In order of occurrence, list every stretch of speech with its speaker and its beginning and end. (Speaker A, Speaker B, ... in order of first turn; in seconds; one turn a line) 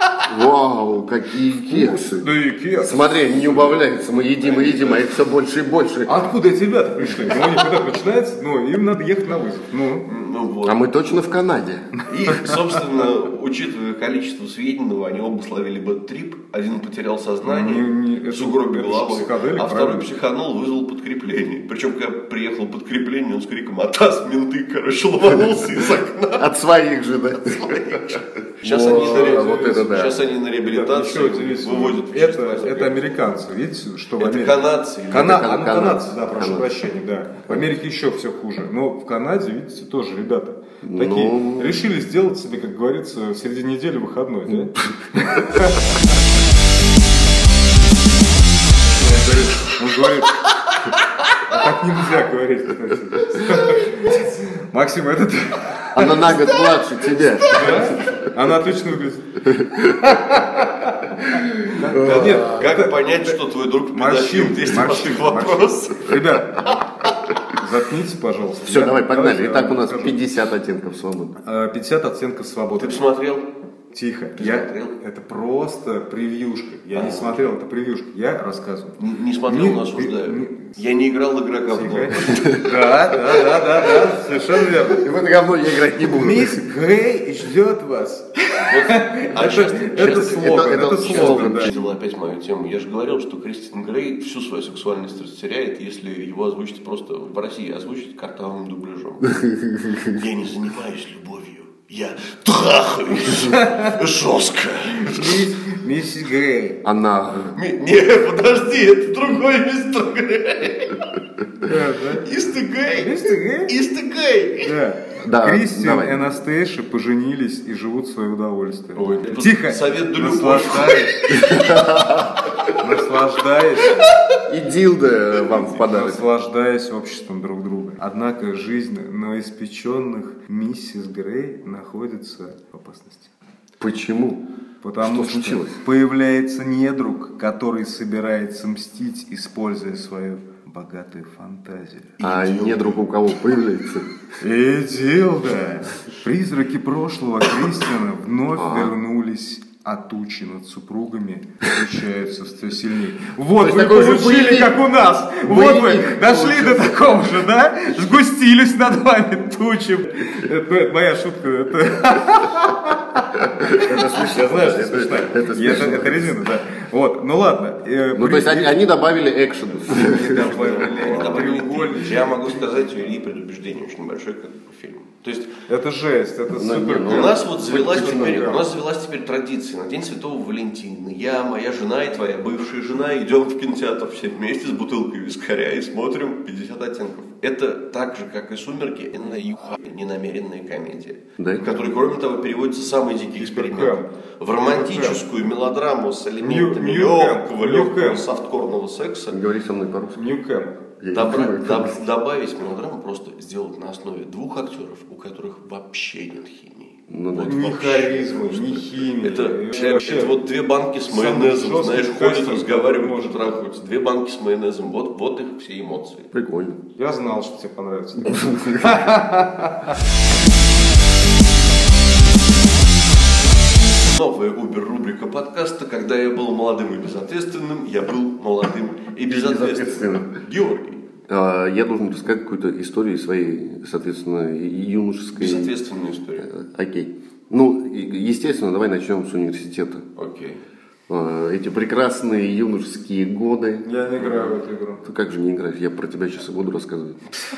Speaker A: 0.3-2.3
Speaker B: 1.7-3.8
Speaker A: 2.8-6.2
Speaker C: 4.4-5.0
Speaker B: 6.1-10.1
Speaker C: 10.1-10.8
Speaker A: 10.7-11.9
Speaker C: 12.1-26.5
Speaker B: 17.4-20.1
Speaker A: 26.4-30.2
Speaker C: 27.6-33.4
Speaker B: 28.7-29.9
Speaker B: 30.7-34.6
Speaker C: 34.2-35.5
Speaker B: 35.1-46.2
Speaker A: 35.2-36.7
Speaker A: 40.8-41.8
Speaker B: 49.0-50.4
Speaker B: 51.4-56.4
Speaker A: 55.9-57.9
Speaker B: 57.5-63.4
Speaker A: 59.6-60.2
Speaker A: 61.9-62.5
Speaker C: 61.9-66.4
Speaker B: 63.9-66.8
Speaker B: 67.5-70.2
Speaker A: 68.7-71.3
Speaker B: 71.4-73.0
Speaker C: 72.8-73.5
Speaker B: 73.9-80.8
Speaker C: 74.4-75.0
Speaker C: 77.0-77.4
Speaker C: 79.0-82.5
Speaker B: 81.7-85.1
Speaker A: 82.3-82.6
Speaker A: 84.9-86.6
Speaker B: 86.2-91.7
Speaker C: 88.6-99.5
Speaker A: 90.0-92.0
Speaker A: 99.4-100.1
Speaker C: 100.0-105.5
Speaker B: 103.4-104.0
Speaker B: 104.9-106.8
Speaker A: 106.8-107.6
Speaker C: 107.5-111.1
Speaker B: 111.6-112.3
Speaker C: 112.1-114.8
Speaker B: 113.0-113.7
Speaker B: 114.6-121.3
Speaker A: 115.2-116.2
Speaker C: 119.0-121.1
Speaker A: 121.3-122.5
Speaker B: 122.8-124.1
Speaker A: 124.5-126.2
Speaker B: 125.7-133.3
Speaker A: 133.8-134.4
Speaker B: 134.8-142.2
Speaker A: 135.0-135.8
Speaker C: 142.2-143.0
Speaker A: 142.2-144.1
Speaker B: 144.4-168.8
Speaker A: 148.6-148.9
Speaker A: 153.6-154.8
Speaker A: 155.4-157.2
Speaker A: 163.6-166.4
Speaker A: 168.1-170.8
Speaker B: 169.9-172.6
Speaker C: 170.2-175.6
Speaker B: 175.7-178.6
Speaker A: 176.6-178.6
Speaker C: 177.1-199.4
Speaker A: 191.4-191.7
Speaker B: 193.4-194.1
Speaker B: 194.6-195.2
Speaker B: 196.4-198.3
Speaker A: 199.3-200.2
Speaker B: 200.2-200.8
Speaker A: 201.0-202.0
Speaker C: 201.1-216.3
Speaker A: 207.1-207.6
Speaker B: 207.5-210.4
Speaker B: 211.1-213.6
Speaker A: 216.3-216.8
Speaker B: 217.0-220.0
Speaker A: 218.4-218.8
Speaker C: 224.1-231.0
Speaker A: 229.3-230.3
Speaker A: 231.3-235.7
Speaker C: 235.4-236.5
Speaker A: 236.4-240.0
Speaker C: 240.2-240.6
Speaker A: 241.1-244.3
Speaker B: 243.8-245.0
Speaker A: 245.0-247.2